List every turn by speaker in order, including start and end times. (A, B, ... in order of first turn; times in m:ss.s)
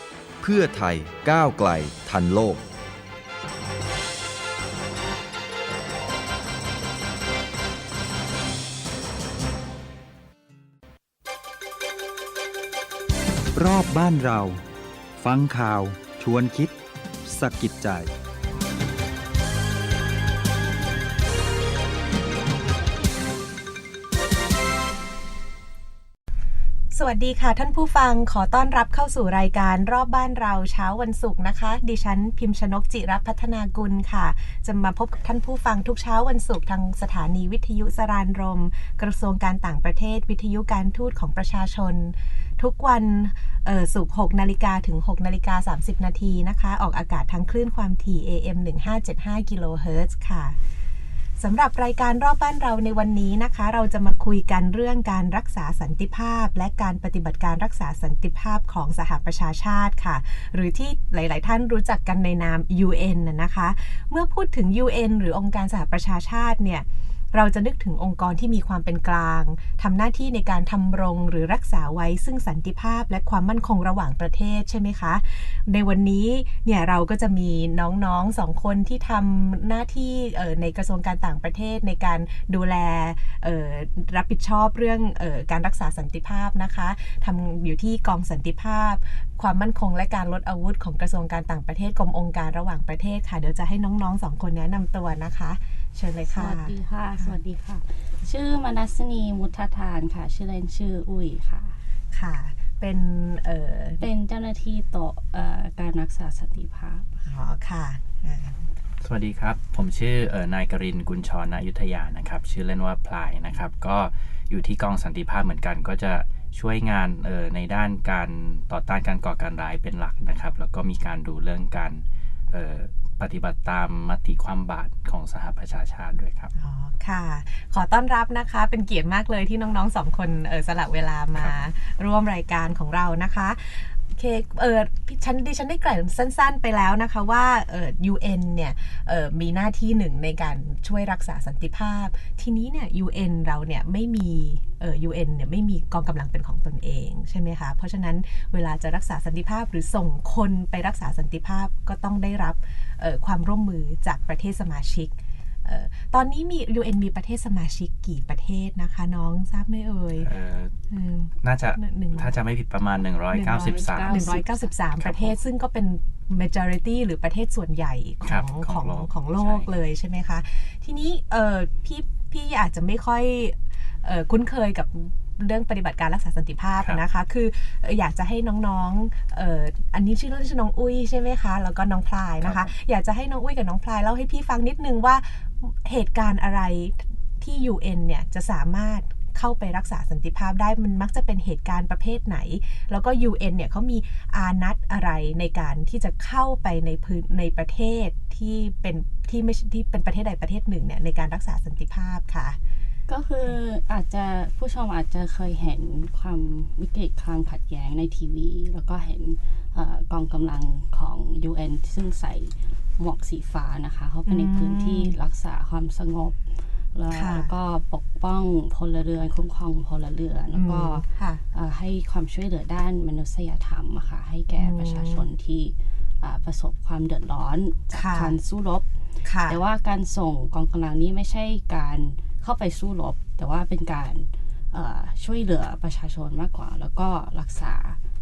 0:00.4-0:02.6 A
0:13.5-0:14.6 B
0:15.2-0:18.1 B
0:26.9-0:50.6 C
0:51.4-1:37.4 C
1:36.3-1:41.8 D
1:42.1-1:44.0 C
1:44.0-1:47.2 D
1:47.2-1:48.6 C
1:49.0-2:06.5 E
2:06.6-2:40.3 C
2:40.2-2:40.7 E
2:40.9-2:42.3 C
2:41.4-2:44.4 E
2:43.3-3:22.6 C
2:43.5-2:44.6 D
2:45.0-2:45.3 E
2:48.2-2:49.7 E
3:02.4-3:02.7 E
3:23.1-3:48.9 D
3:34.3-3:35.2 C
3:37.1-3:37.5 C
3:40.5-3:41.4 C
3:44.6-3:45.2 C
3:47.9-3:48.4 C
3:49.2-3:49.6 C
3:49.4-3:58.0 D